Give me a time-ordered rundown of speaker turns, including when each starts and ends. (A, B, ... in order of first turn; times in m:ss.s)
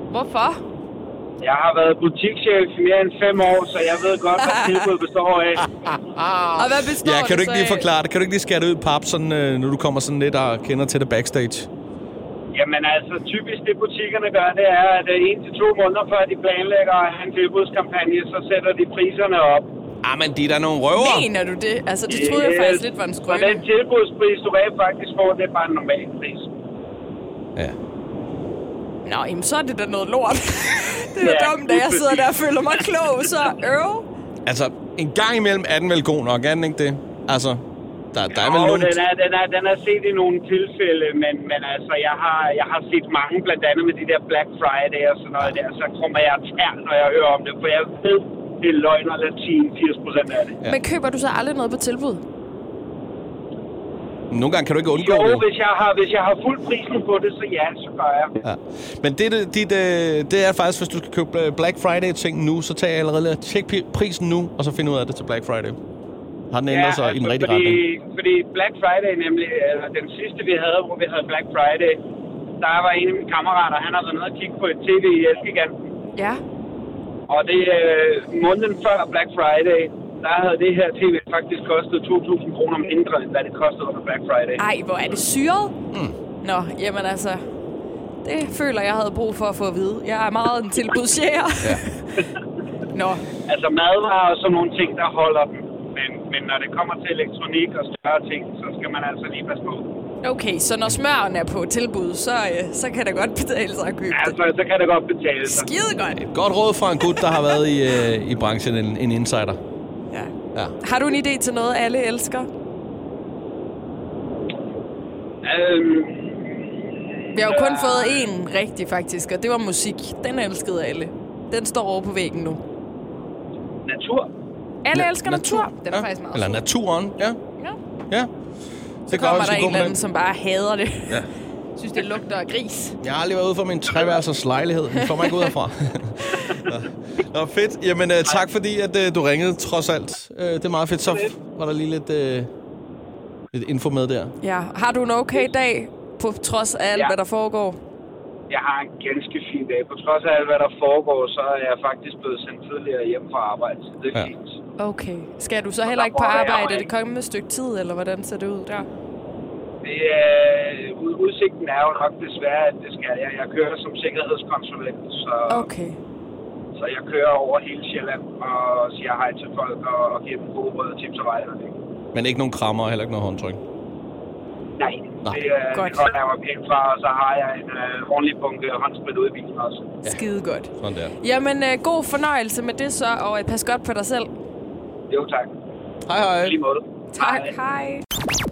0:00.1-0:00.6 A
0:01.4-0:05.6 B
0:04.4-0:04.9 A
0:05.8-0:11.7 C
0:06.6-0:07.9 A
0:12.5-0:19.6 B
0:20.0-0:21.3 C
0:20.9-0:23.6 A
0:22.1-0:26.5 B
0:29.0-0:34.0 A
0:31.2-0:32.3 B
0:34.4-0:39.0 C
0:38.3-0:50.6 B
0:50.7-0:52.2 A
0:54.3-0:55.4 C
0:54.9-0:58.4 B
0:58.4-1:05.8 C
1:06.5-1:07.8 C
1:06.7-1:12.0 B
1:12.6-1:15.9 B
1:16.2-1:16.4 A
1:17.3-1:24.6 B
1:24.6-1:25.7 A
1:26.4-1:27.4 A
1:28.2-1:32.0 A
1:32.9-1:33.3 A
1:33.4-1:39.9 B
1:40.2-1:44.4 A
1:44.1-1:45.7 B
1:45.4-1:46.2 A
1:46.2-1:49.6 C
1:47.0-1:47.6 A
1:50.1-1:52.5 A
1:55.4-1:56.7 B
1:57.3-2:02.6 A
1:57.4-1:58.2 B
2:03.8-2:04.3 B
2:04.8-2:06.6 A
2:04.9-2:07.4 C
2:09.1-2:10.0 C
2:09.1-2:11.2 A
2:11.8-2:13.0 A
2:13.0-2:22.5 C
2:15.0-2:15.5 A
2:16.3-2:16.6 A
2:23.5-2:24.4 C
2:24.4-2:27.8 A
2:28.5-2:34.5 B
2:34.8-2:38.9 A
2:35.8-2:36.9 B
2:39.8-2:45.7 B
2:45.5-2:46.0 A
2:46.7-2:51.8 B
2:52.1-2:53.6 C
2:54.8-3:00.0 B
2:55.7-2:56.1 A
3:00.0-3:04.3 A
3:00.8-3:01.1 C
3:05.1-3:05.5 B
3:06.1-3:06.6 C
3:06.3-3:07.5 B
3:07.1-3:08.0 A